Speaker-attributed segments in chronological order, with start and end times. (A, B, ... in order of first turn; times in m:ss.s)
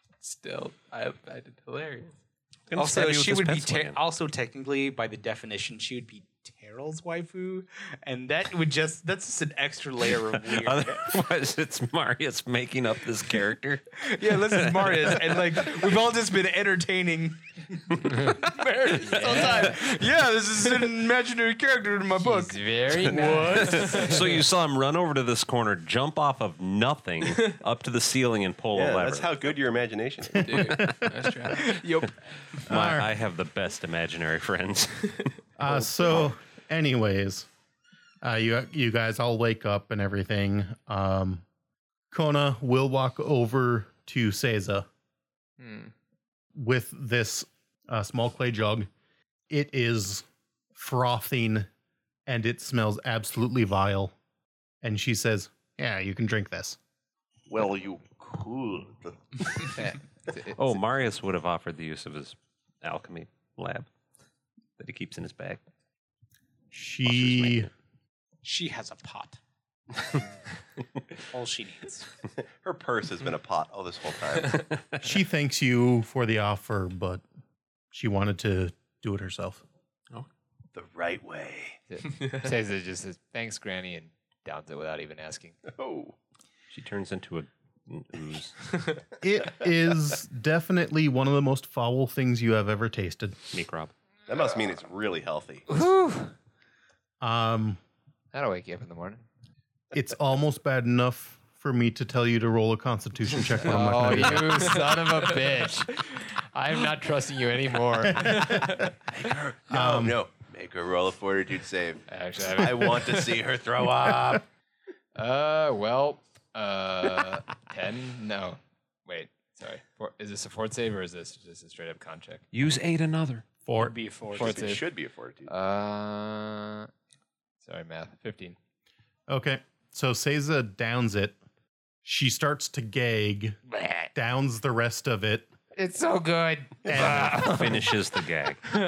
0:00.2-0:02.2 A
0:02.7-0:04.0 B
0:02.8-0:11.1 C
0:10.4-0:15.8 B
0:14.0-0:23.2 C
0:19.1-0:19.8 D
0:22.2-0:24.5 D
0:23.1-0:24.2 A
0:23.2-0:29.3 B
0:28.7-0:30.8 E
0:30.4-0:31.8 A
0:30.5-0:31.1 F
0:31.5-0:32.2 C
0:32.7-0:33.1 F
0:32.7-0:35.3 B
0:35.6-0:37.5 F
0:38.2-0:41.4 F
0:42.1-0:44.9 F
0:45.6-0:45.9 D
0:46.6-0:48.9 F
0:49.5-0:51.7 F
0:52.3-0:54.1 F
0:54.8-0:56.8 F
0:57.5-0:59.8 E
0:59.8-1:00.8 D
1:00.6-1:03.9 B
1:04.8-1:05.6 B
1:06.7-1:07.7 F
1:07.1-1:07.7 B
1:08.4-1:09.4 C
1:11.3-1:12.1 C
1:12.6-1:14.7 E
1:15.0-1:17.2 F
1:17.9-1:19.6 F
1:20.8-1:21.8 E
1:21.9-1:25.6 D
1:25.6-1:26.2 E
1:26.7-1:28.6 B
1:29.2-1:33.5 F
1:33.5-1:33.9 B
1:34.3-1:35.7 E
1:35.7-1:36.3 D
1:37.2-1:37.8 F
1:38.3-1:39.2 D
1:39.9-1:44.8 F
1:43.6-1:48.7 D
1:48.2-1:48.6 F
1:49.1-1:54.4 E
1:49.7-1:50.2 F
1:52.1-1:53.4 D
1:55.2-2:02.5 D
2:02.5-2:03.4 B
2:03.7-2:03.9 F
2:03.8-2:04.7 C
2:04.3-2:04.8 D
2:04.4-2:05.5 E
2:05.5-2:06.9 D
2:07.6-2:08.6 D
2:09.3-2:11.4 F
2:12.0-2:13.6 F
2:13.7-2:14.1 D
2:14.2-2:15.5 F
2:15.8-2:17.9 D
2:16.8-2:17.8 F
2:17.0-2:18.6 B